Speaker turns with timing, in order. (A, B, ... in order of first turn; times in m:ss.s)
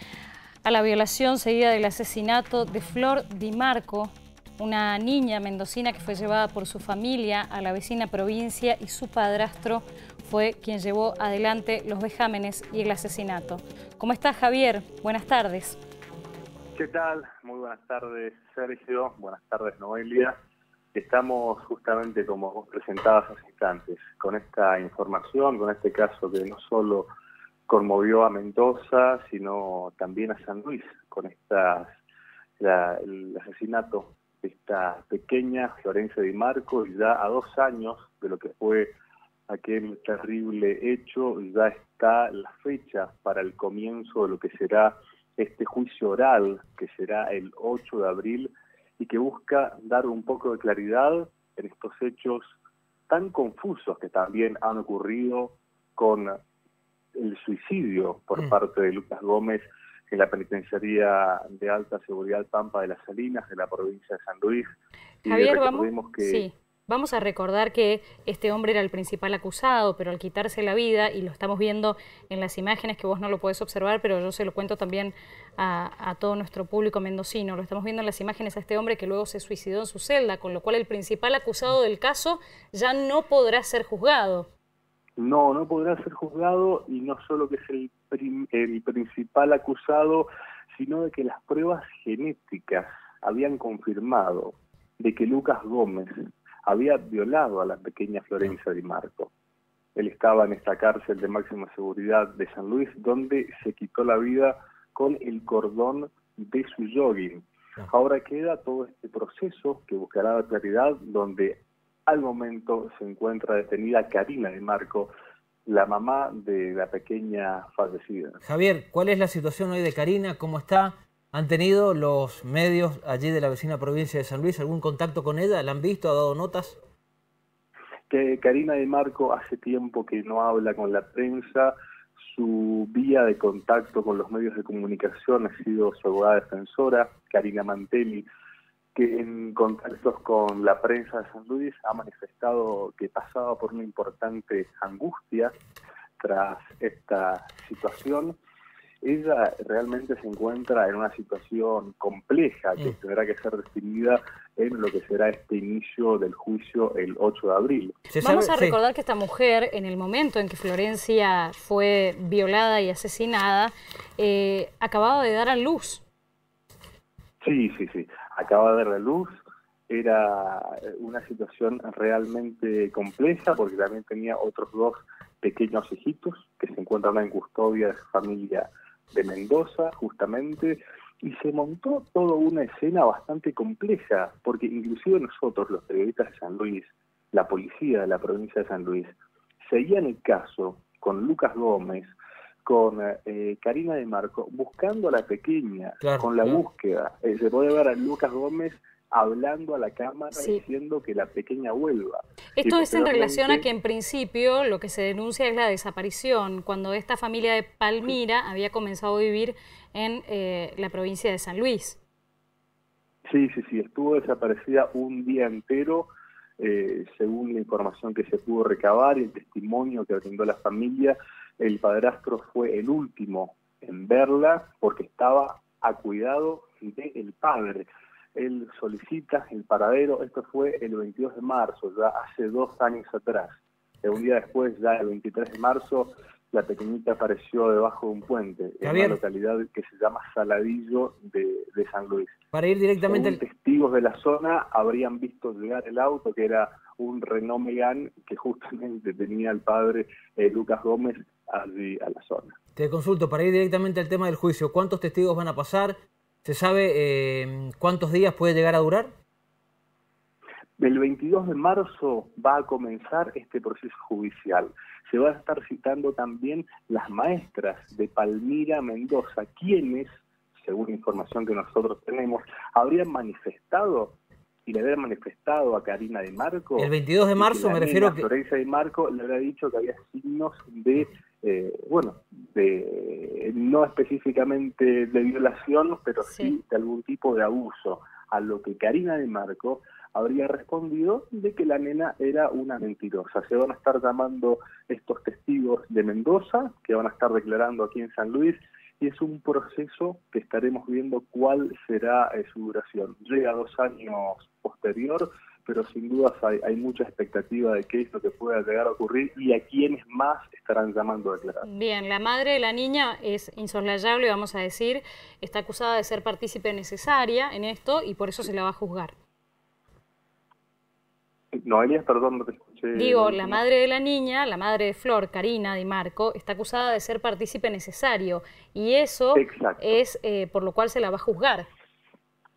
0:00.6-0:15.8 A
0:16.8-0:20.4 B
0:20.9-0:27.1 B
0:27.7-0:31.9 B
0:32.6-0:38.9 B
0:39.5-0:52.5 B
0:53.1-0:56.4 B
0:57.2-1:04.7 B
1:05.2-1:06.5 B
1:05.2-1:24.5 A
1:25.2-1:36.1 B
1:36.6-1:39.3 B
1:40.0-1:55.1 B
1:55.7-1:58.4 B
1:58.4-2:06.8 C
2:08.1-2:18.3 B
2:19.0-2:25.6 B
2:26.2-2:28.4 B
2:29.0-2:38.0 B
2:38.1-2:38.8 C
2:38.2-2:46.0 A
2:47.4-2:49.4 B
2:49.9-3:12.1 B
3:12.6-3:23.7 B
3:16.0-3:16.6 C
3:20.4-3:20.6 A
3:22.6-3:32.0 A
3:33.3-3:36.1 B
3:36.6-4:02.4 B
3:58.8-3:59.2 C
4:02.5-4:03.4 C
4:03.0-4:12.6 B
4:12.8-4:19.1 C
4:20.8-4:30.1 B
4:30.6-5:11.6 B
4:36.8-4:38.2 C
4:46.2-4:46.6 A
5:11.6-5:19.1 A
5:21.5-5:23.6 B
5:23.0-5:31.7 A
5:29.4-5:30.0 B